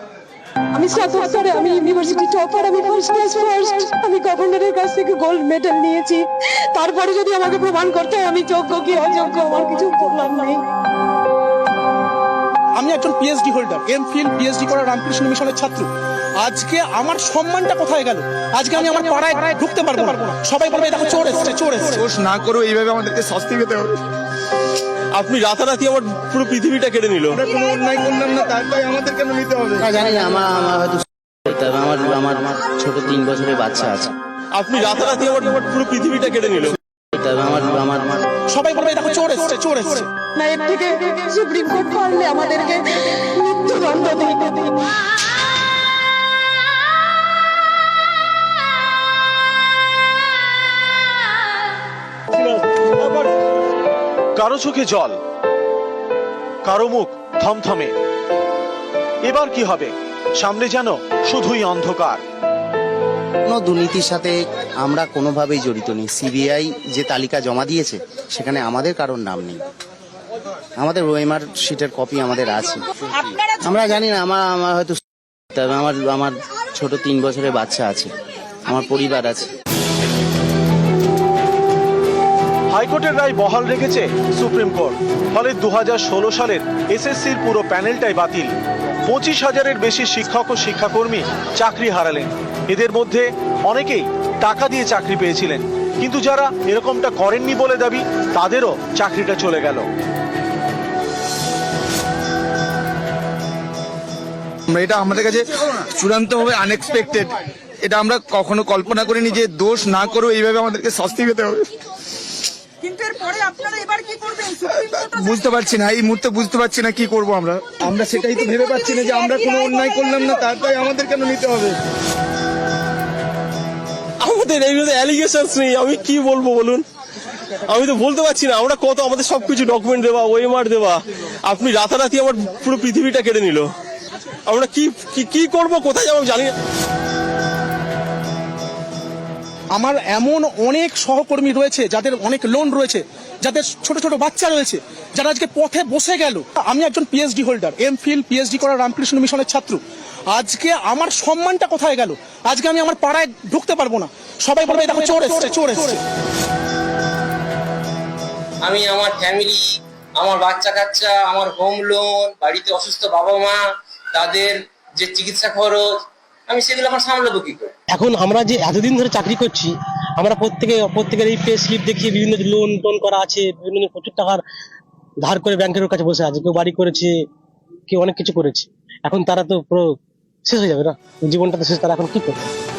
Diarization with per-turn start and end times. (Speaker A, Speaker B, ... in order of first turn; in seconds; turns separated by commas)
Speaker A: 0.8-10.6, Speaker B: 12.8-15.9, Speaker B: 16.4-22.0, Speaker C: 22.0-24.0, Speaker D: 25.1-27.4, Speaker C: 27.3-29.9, Speaker E: 29.8-34.1, Speaker D: 34.5-36.8, Speaker E: 37.1-38.2, Speaker B: 38.5-40.1, Speaker A: 40.4-44.7, Speaker F: 54.4-55.2, Speaker F: 56.6-57.9, Speaker F: 59.3-62.2, Speaker E: 63.5-69.6, Speaker E: 70.8-72.8, Speaker E: 73.6-75.0, Speaker E: 75.5-78.1, Speaker E: 78.7-79.5, Speaker F: 82.7-88.5, Speaker F: 89.1-99.9, Speaker C: 104.7-111.7, Speaker C: 114.4-121.8, Speaker D: 124.2-126.8, Speaker D: 127.7-133.7, Speaker D: 134.5-136.5, Speaker B: 139.8-156.0, Speaker G: 158.6-166.0, Speaker G: 166.5-167.7, Speaker H: 167.9-174.4, Speaker H: 175.2-177.3, Speaker H: 177.9-182.4